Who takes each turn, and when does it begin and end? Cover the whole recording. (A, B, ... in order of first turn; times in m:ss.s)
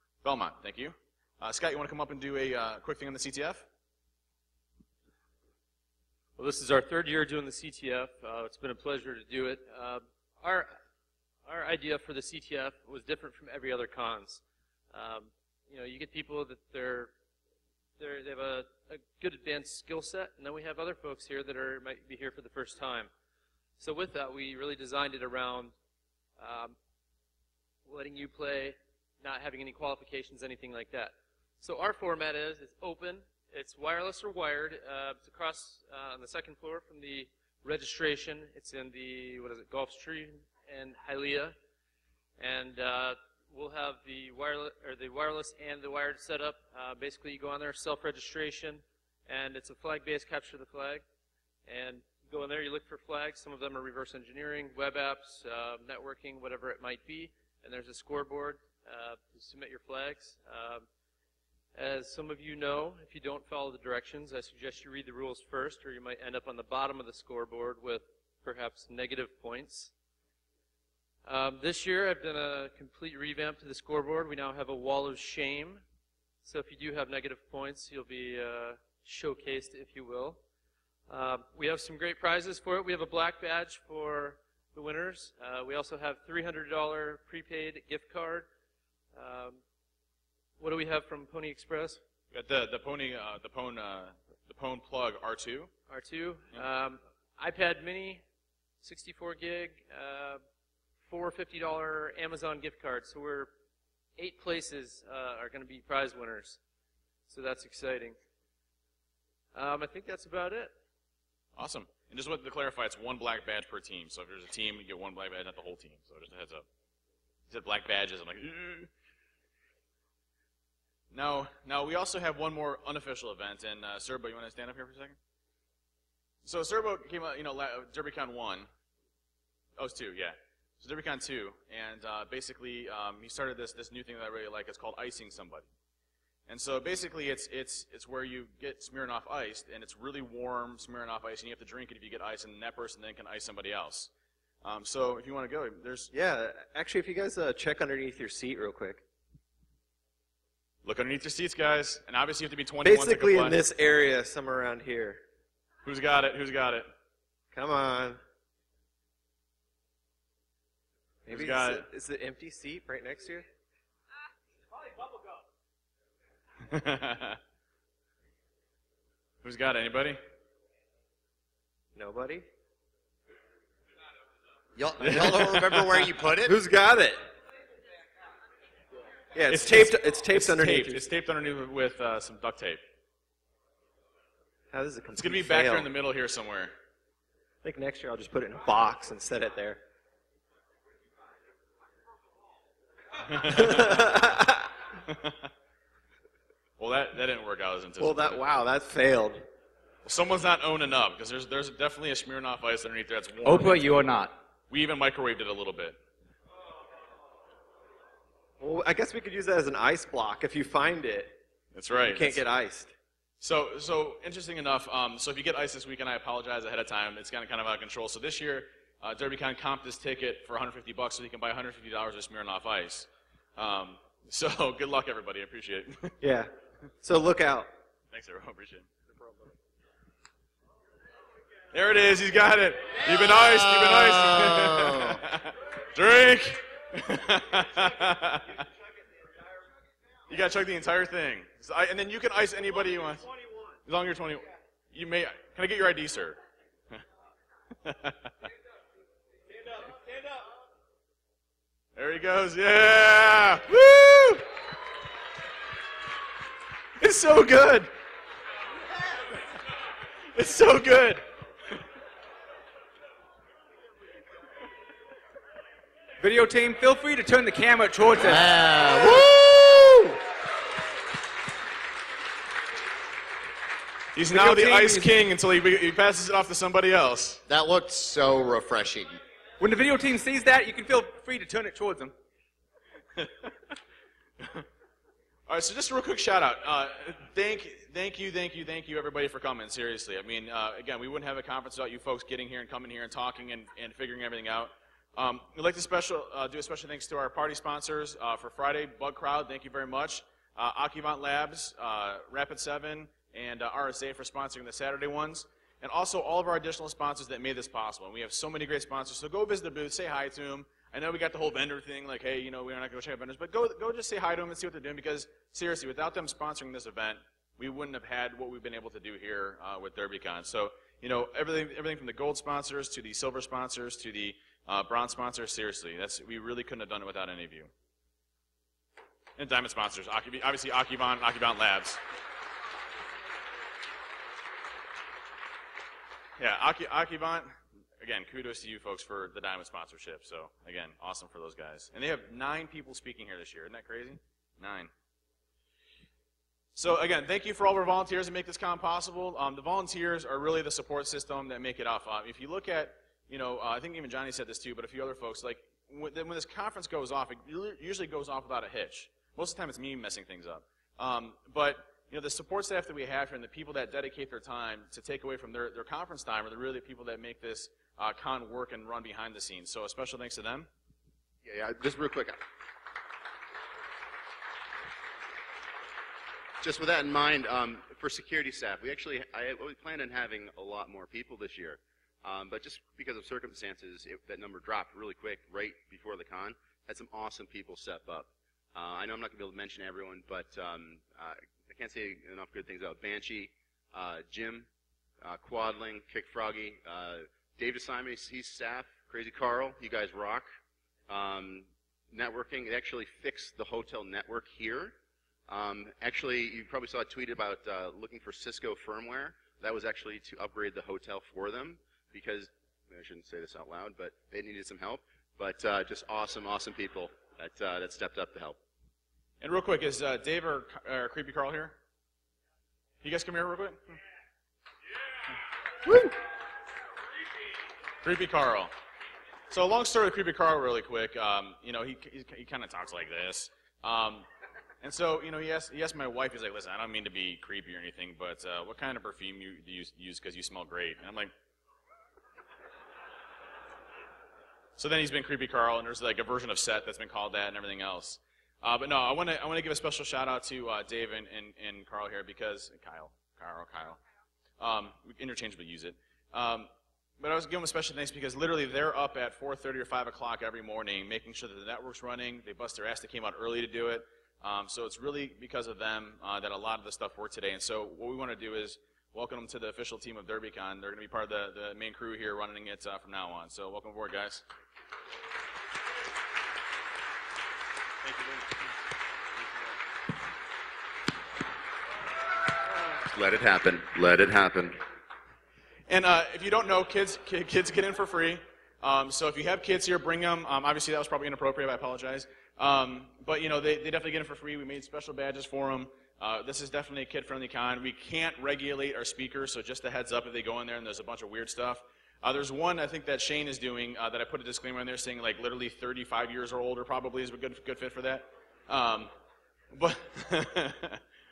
0:00.2-0:03.6 A
0:06.4-0:10.8 B
0:11.4-0:17.1 B
0:18.0-0:23.1 B
0:23.8-0:25.7 B
0:26.4-0:26.8 B
0:27.8-0:41.6 B
0:42.4-0:51.0 B
0:51.6-1:00.9 B
1:01.7-1:09.9 B
1:11.2-1:15.8 B
1:16.4-1:20.4 B
1:21.1-1:28.5 B
1:29.1-1:29.6 B
1:30.6-1:32.0 B
1:32.3-1:35.7 A
1:35.9-1:38.2 B
1:38.8-1:40.4 B
1:41.0-1:43.5 B
1:44.2-1:46.6 B
1:47.3-1:48.2 B
1:49.5-1:50.7 B
1:51.6-1:56.6 A
1:57.5-1:58.9 A
2:01.1-2:05.2 A
2:06.4-2:08.7 A
2:09.8-2:15.7 A
2:16.5-2:24.1 A
2:24.6-2:26.1 A
2:26.1-2:29.0 C
2:30.8-2:33.6 A
2:32.8-2:35.2 C
2:35.8-2:36.9 A
2:37.5-2:38.2 C
2:41.2-2:43.5 C
2:41.3-2:41.9 A
2:46.6-2:47.4 A
2:49.4-2:50.2 A
2:51.9-2:52.5 C
2:54.8-2:56.6 D
2:55.0-2:55.4 C
2:55.2-2:55.8 A
2:56.4-2:57.3 C
2:59.3-3:01.0 C
2:59.5-3:02.8 A
3:04.7-3:05.9 C
3:05.1-3:06.7 A
3:07.6-3:09.8 C
3:13.2-3:14.2 A
3:13.5-3:14.7 C
3:14.9-3:15.5 A
3:16.8-3:18.4 A
3:18.0-3:19.5 C
3:20.0-3:24.0 A
3:23.4-3:24.4 E
3:24.7-3:26.0 A
3:28.6-3:31.4 C
3:31.7-3:32.4 A
3:32.0-3:32.9 C
3:33.4-3:46.2 A
3:46.2-3:46.5 C
3:47.0-3:47.7 C
3:48.1-3:48.9 A
3:51.7-3:58.7 A
3:53.0-3:55.2 D
4:00.3-4:03.3 A
4:03.8-4:06.4 A
4:07.8-4:08.3 A
4:12.0-4:14.4 A
4:17.0-4:17.9 A
4:20.3-4:21.8 A
4:26.2-4:28.5 E
4:28.1-4:30.0 D
4:34.1-4:37.4 A
4:34.3-4:35.1 E
4:37.5-4:39.2 D
4:39.6-4:42.1 E
4:43.2-4:43.7 A
4:44.4-4:44.6 A
4:45.5-5:27.7 A
5:29.4-5:32.0 A
5:36.4-5:44.9 A
5:46.7-6:10.7 A
6:11.4-6:12.4 F
6:16.6-6:34.7 F
6:35.2-6:40.4 F
6:41.1-6:44.9 F
6:45.5-6:58.6 F
6:59.4-7:01.8 A
7:03.0-7:04.0 A
7:05.9-7:06.1 C
7:08.0-7:08.7 A
7:09.5-7:14.3 A
7:14.8-7:21.3 A
7:24.8-7:34.0 A
7:34.6-7:54.4 A
7:58.0-7:58.7 A
8:03.0-8:04.8 F
8:05.9-8:29.1 A
8:29.7-8:31.0 A